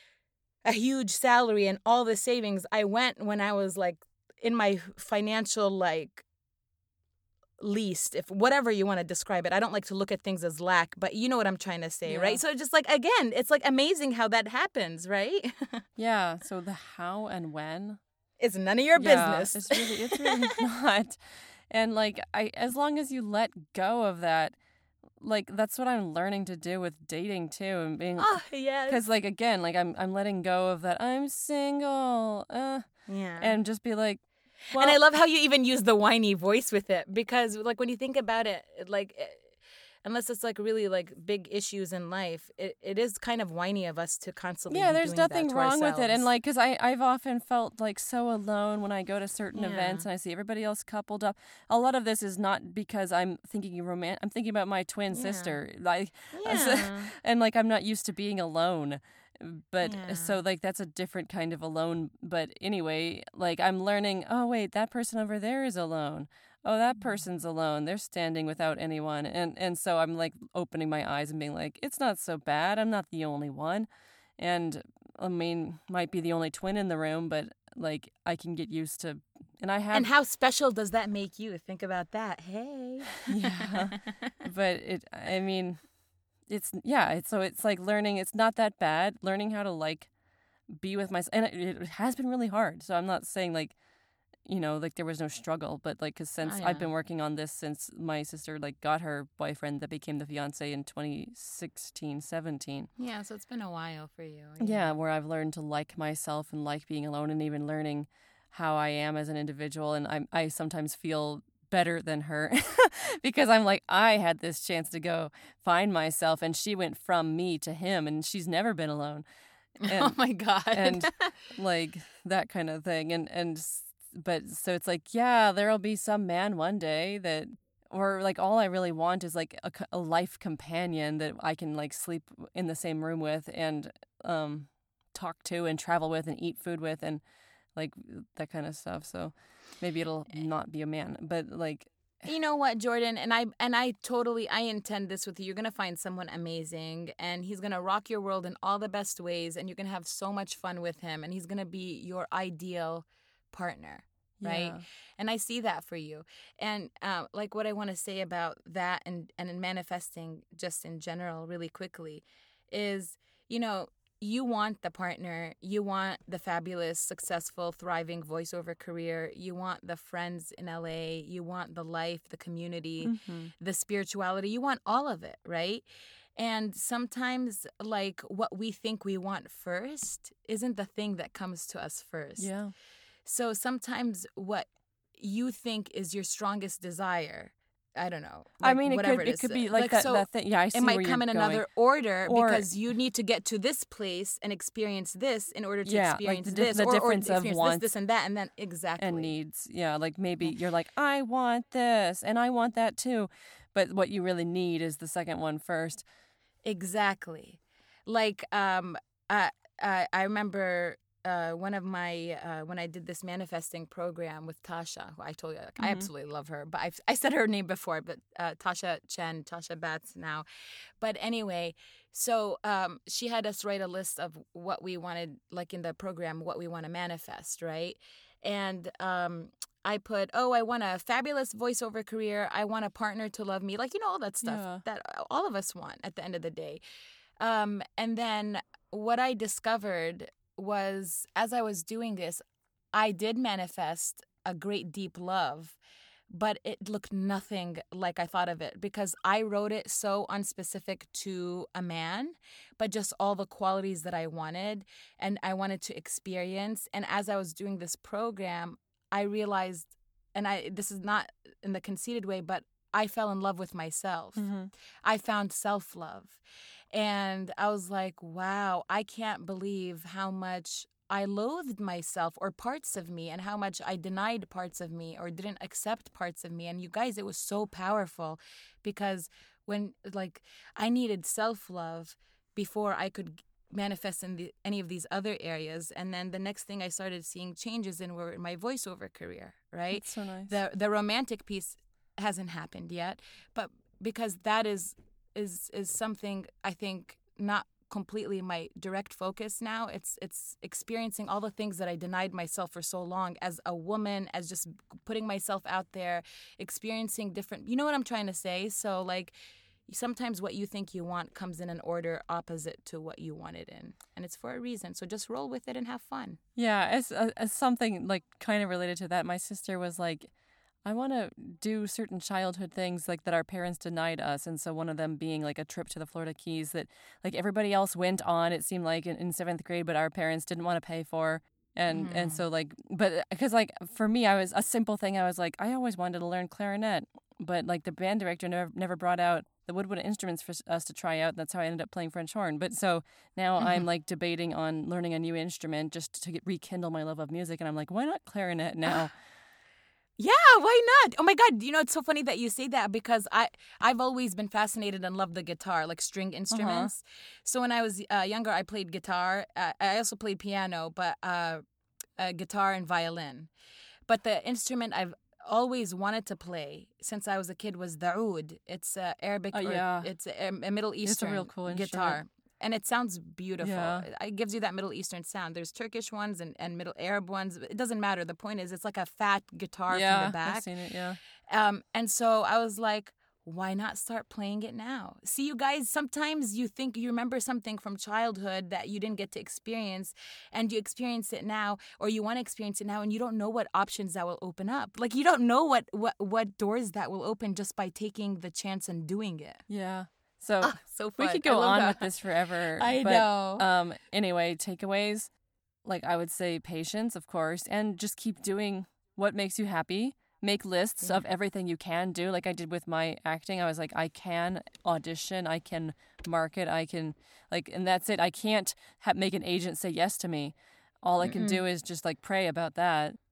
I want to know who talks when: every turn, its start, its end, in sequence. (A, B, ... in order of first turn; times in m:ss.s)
0:00.6-0:06.2 A
0:07.6-0:15.8 A
0:12.1-0:12.4 B
0:16.0-0:18.0 B
0:18.4-0:20.6 A
0:19.0-0:24.6 B
0:25.2-0:35.0 B
0:28.2-0:29.0 A
0:33.1-0:33.6 A
0:34.8-0:46.3 A
0:44.7-1:13.9 B
0:49.5-0:50.1 A
0:55.1-0:55.6 A
0:56.3-0:57.1 A
0:59.8-1:00.4 A
1:14.4-1:20.1 B
1:19.9-1:24.3 A
1:23.3-1:30.1 B
1:30.7-1:33.8 B
1:34.4-1:42.9 B
1:36.4-1:36.9 A
1:43.0-1:44.9 A
1:44.6-1:59.2 B
1:59.8-2:00.2 B
1:59.8-2:01.3 A
2:00.7-2:17.2 B
2:17.8-2:21.9 B
2:22.2-2:55.8 A
2:34.4-2:34.8 B
2:53.0-2:53.5 B
2:56.4-3:02.5 A
3:02.4-3:02.7 B
3:03.2-3:19.3 A
3:08.6-3:11.7 B
3:12.2-3:12.7 B
3:15.8-3:17.8 B
3:19.0-3:26.0 B
3:26.6-3:40.4 A
3:35.8-3:36.1 B
3:41.0-3:56.8 A
3:54.4-3:54.8 B
3:57.4-4:05.8 A
4:06.3-4:24.5 A
4:24.4-4:24.7 B
4:25.0-4:26.4 A
4:26.9-5:09.4 A
4:49.9-4:50.6 B
5:09.9-5:16.4 A
5:16.6-5:20.3 B
5:20.8-5:49.1 B
5:31.9-5:32.4 A
5:50.2-6:01.6 A
5:56.5-5:56.9 B
6:02.2-6:03.5 A
6:04.1-6:20.7 A
6:09.5-6:10.1 B
6:11.1-6:12.2 B
6:13.6-6:14.0 B
6:19.9-6:21.2 B
6:21.5-6:39.6 A
6:39.7-6:45.3 B
6:40.6-6:42.1 A
6:42.8-6:43.7 A
6:45.8-7:03.2 B
7:01.2-7:01.6 A